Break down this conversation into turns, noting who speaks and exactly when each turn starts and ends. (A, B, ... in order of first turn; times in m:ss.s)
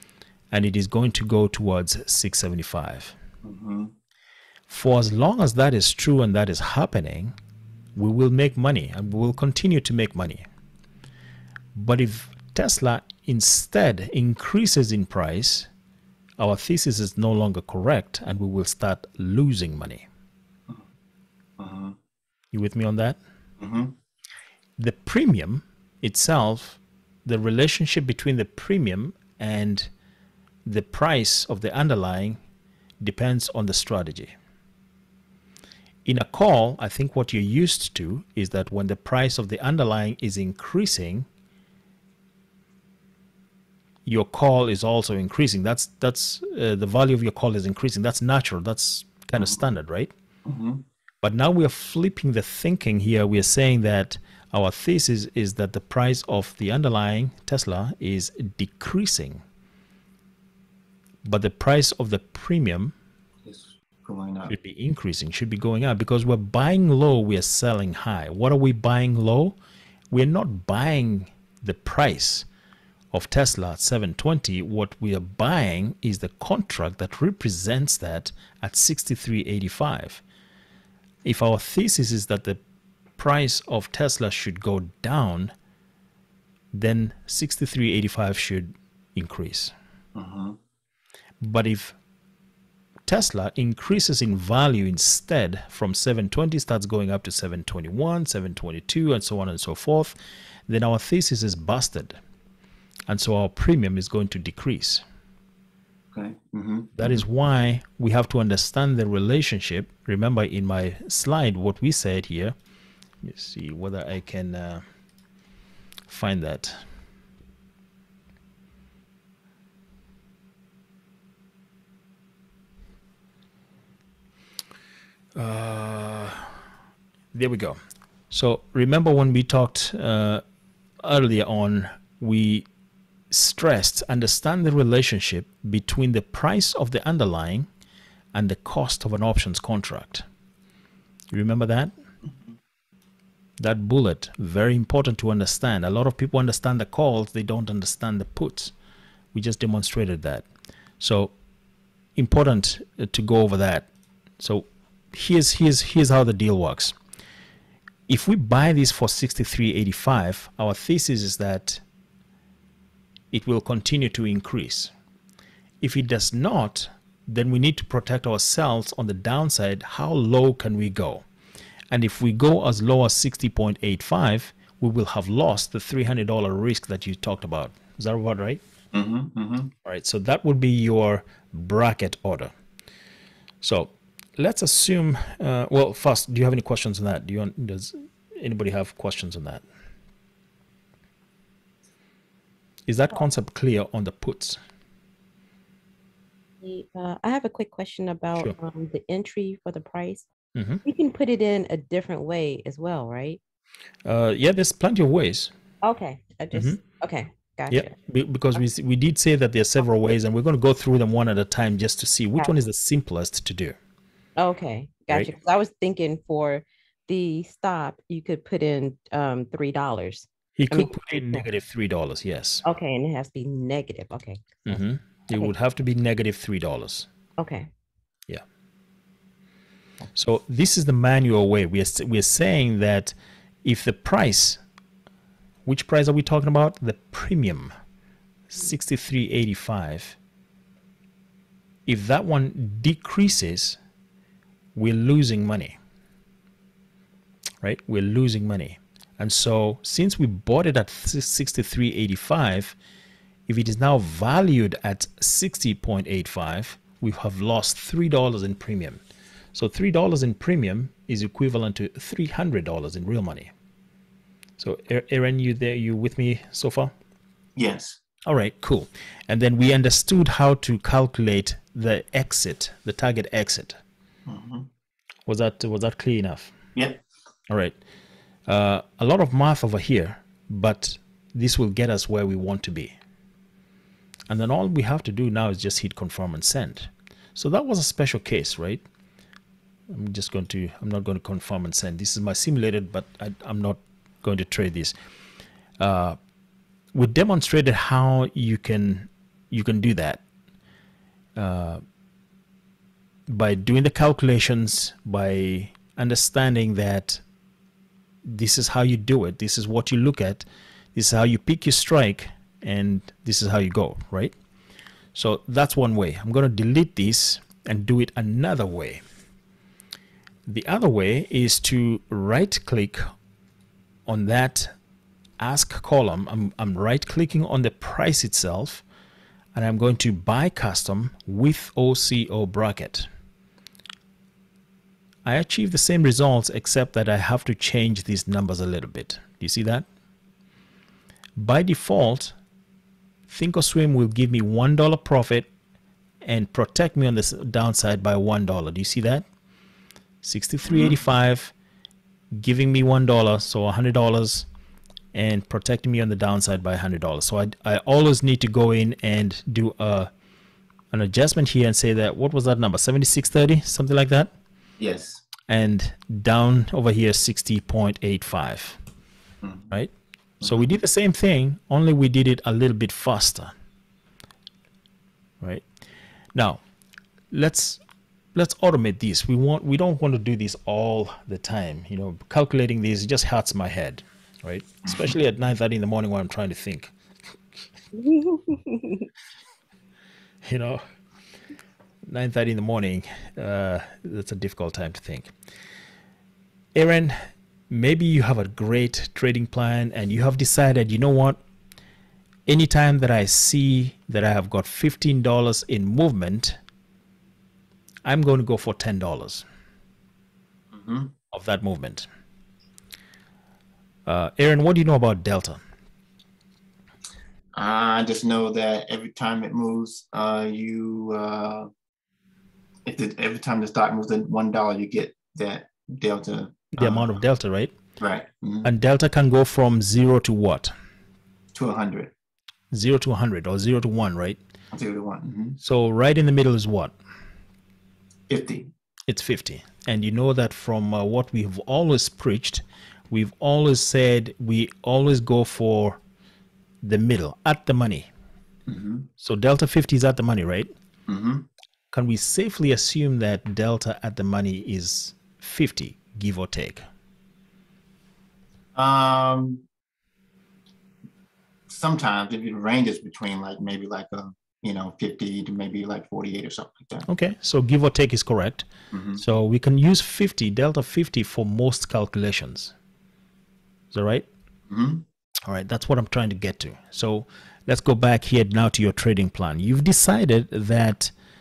0:00.5-0:03.2 A
0:03.4-0:03.9 B
0:04.7-0:07.4 A
0:08.0-0:10.4 A
0:11.8-0:15.7 A
0:16.4-0:20.1 A
0:21.6-0:22.0 B
0:22.5-0:23.2 A
0:23.6-0:24.0 B
0:24.8-0:29.9 A
0:30.6-0:32.4 A
0:33.0-0:34.3 A
0:36.1-0:41.3 A
0:44.1-0:50.1 A
0:50.4-0:50.8 B
0:51.2-0:59.4 A
1:01.2-1:02.9 A
1:03.5-1:04.6 B
1:04.5-1:09.6 A
1:10.1-1:12.5 A
1:13.1-1:20.2 A
1:21.2-1:22.6 A
1:23.2-1:25.5 A
1:26.7-1:29.7 A
1:30.2-1:30.6 B
1:31.4-1:32.0 A
1:33.1-1:40.2 A
1:40.7-1:42.2 A
1:43.1-1:45.0 A
1:46.1-1:47.2 B
1:47.0-1:52.6 A
1:53.2-1:54.8 A
1:56.1-1:56.9 A
2:05.4-2:06.6 A
2:07.3-2:07.8 A
2:08.3-2:10.4 A
2:11.0-2:12.7 A
2:13.3-2:17.7 A
2:18.3-2:20.2 A
2:21.3-2:21.9 A
2:23.6-2:28.7 A
2:29.3-2:30.5 A
2:31.0-2:31.3 A
2:32.2-2:33.9 A
2:34.4-2:37.0 A
2:38.1-2:41.8 A
2:43.3-2:44.9 A
2:45.8-2:51.2 A
2:51.9-2:58.6 A
2:58.9-2:59.7 B
2:59.8-3:02.5 A
3:03.6-3:09.6 A
3:12.9-3:14.6 A
3:16.6-3:20.3 C
3:20.6-3:20.8 A
3:20.8-3:23.4 C
3:24.0-3:25.5 A
3:25.8-3:27.9 C
3:26.5-3:26.8 A
3:27.7-3:33.8 A
3:34.4-3:41.4 C
3:40.6-3:42.6 A
3:42.6-3:44.8 C
3:44.7-3:47.1 A
3:47.4-3:47.7 C
3:50.2-3:54.6 A
3:55.6-3:57.7 A
3:58.5-4:00.2 A
4:01.9-4:03.8 A
4:04.8-4:05.8 A
4:07.6-4:12.8 A
4:13.5-4:19.0 A
4:19.5-4:23.5 A
4:24.6-4:26.9 A
4:27.6-4:28.0 B
4:28.3-4:33.8 A
4:34.3-4:34.7 B
4:35.3-4:36.5 A
4:36.8-4:37.0 B
4:37.5-4:37.8 A
4:38.5-4:43.0 A
4:44.3-4:48.8 A
4:49.9-4:55.0 A
4:55.8-4:56.2 A
4:56.9-5:00.2 A
5:01.4-5:01.8 A
5:03.3-5:07.2 A
5:08.3-5:14.4 A
5:15.1-5:19.0 A
5:20.5-5:23.1 A
5:24.1-5:24.7 A
5:25.4-5:28.8 A
5:29.6-5:33.1 A
5:35.2-5:39.9 A
5:41.4-5:42.4 A
5:43.3-5:45.5 A
5:46.2-5:49.2 A
5:50.2-5:51.5 A
5:50.6-5:51.0 B
5:52.4-5:54.5 A
5:55.1-6:00.1 A
6:00.9-6:04.3 A
6:04.8-6:05.2 B
6:05.5-6:08.8 A
6:09.4-6:09.7 B
6:10.4-6:13.5 A
6:15.4-6:15.7 A
6:16.4-6:16.6 A
6:17.3-6:17.8 A
6:18.4-6:26.9 A
6:28.0-6:29.0 C
6:30.4-6:30.8 A
6:32.0-6:35.3 A
6:36.8-6:41.4 A
6:42.5-6:46.6 A
6:48.0-6:49.4 A
6:50.7-6:51.1 B
6:51.3-6:52.1 A
6:54.1-6:55.6 A
6:57.6-7:01.7 B
7:02.9-7:07.2 B
7:06.7-7:07.8 A
7:08.0-7:08.7 B
7:08.6-7:10.7 A
7:11.6-7:12.1 B
7:12.7-7:14.4 A
7:14.7-7:15.6 B
7:15.6-7:17.0 A
7:18.3-7:18.7 B
7:19.1-7:26.0 A
7:26.8-7:28.1 A
7:28.7-7:29.1 B
7:29.2-7:30.7 A
7:31.1-7:31.5 B
7:31.9-7:36.8 A
7:38.8-7:39.7 B
7:41.7-7:47.1 B
7:47.1-7:48.7 A
7:48.9-7:49.2 B
7:49.2-7:52.7 A
7:53.9-7:54.3 A
7:54.7-7:55.0 B
7:55.5-8:01.1 A